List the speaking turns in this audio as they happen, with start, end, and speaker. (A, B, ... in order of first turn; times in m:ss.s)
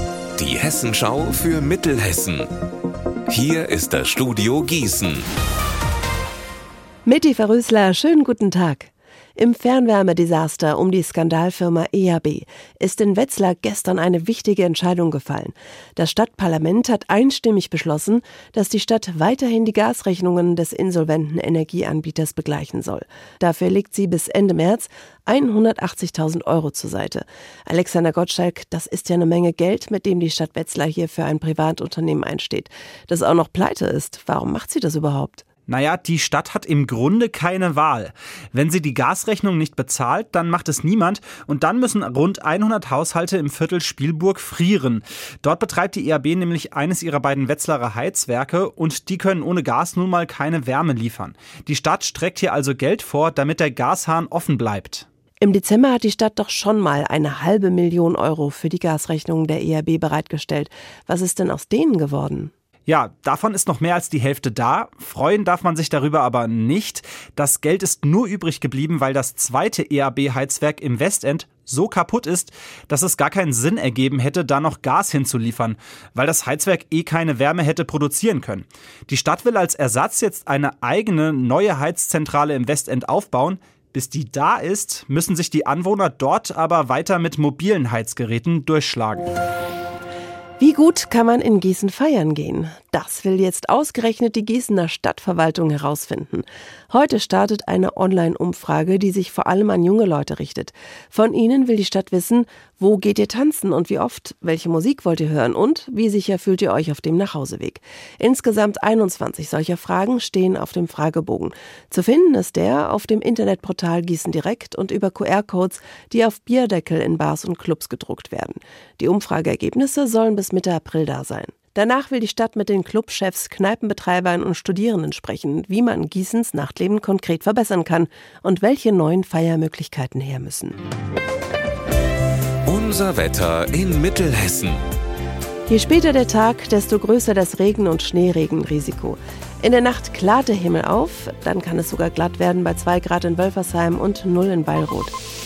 0:00.4-0:02.5 A
0:03.3-0:05.3 A
0:07.0-0:35.4 B
0:35.7-0:55.0 C
0:55.4-1:02.5 B
1:02.9-1:29.3 C
1:30.6-2:10.8 B
2:12.6-2:14.8 A
2:15.7-2:25.1 B